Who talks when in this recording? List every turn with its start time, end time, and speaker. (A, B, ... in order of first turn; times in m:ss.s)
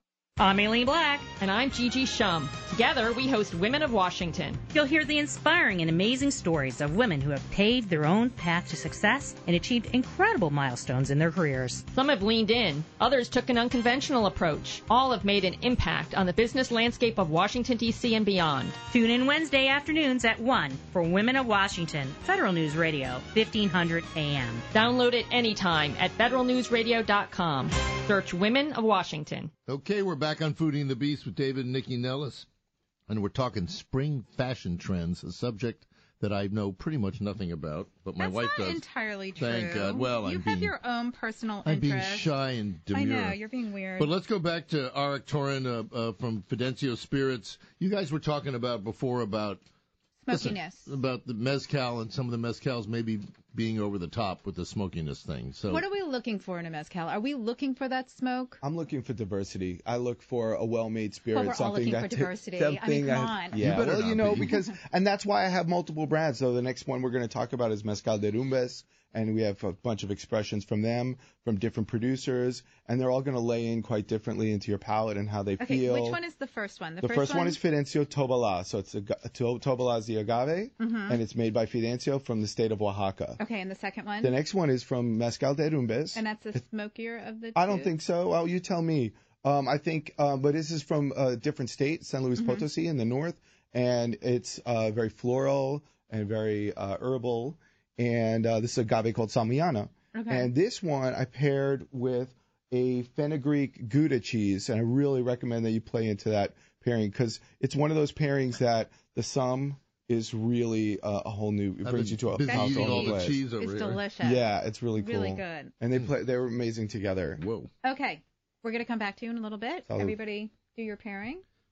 0:00.4-0:04.6 A
0:04.7-0:11.8 B
0:11.9-0:18.8 A
0:18.8-0:24.6 B
0:24.7-0:29.5 A
0:29.7-0:32.4 C
0:33.1-0:38.8 C
0:38.2-0:42.3 D
0:39.4-0:40.7 C
0:41.6-0:43.4 C
0:42.9-0:44.1 D
0:44.0-0:49.6 C
0:50.2-0:50.9 D
0:50.3-0:55.8 C
0:55.7-0:58.6 D
0:58.6-1:16.2 E
1:01.3-1:03.6 D
1:03.6-1:04.5 C
1:15.6-1:17.6 D
1:17.0-1:23.4 E
1:20.8-1:21.2 D
1:23.4-1:24.3 D
1:24.2-1:26.2 E
1:26.2-1:27.9 D
1:27.5-1:53.4 E
1:32.4-1:32.6 D
1:40.1-1:40.5 D
1:51.8-1:54.0 C
1:52.4-1:54.4 D
1:54.2-1:57.4 E
1:55.0-1:55.7 D
1:57.4-1:57.7 C
1:57.8-2:01.4 D
1:59.9-2:00.2 E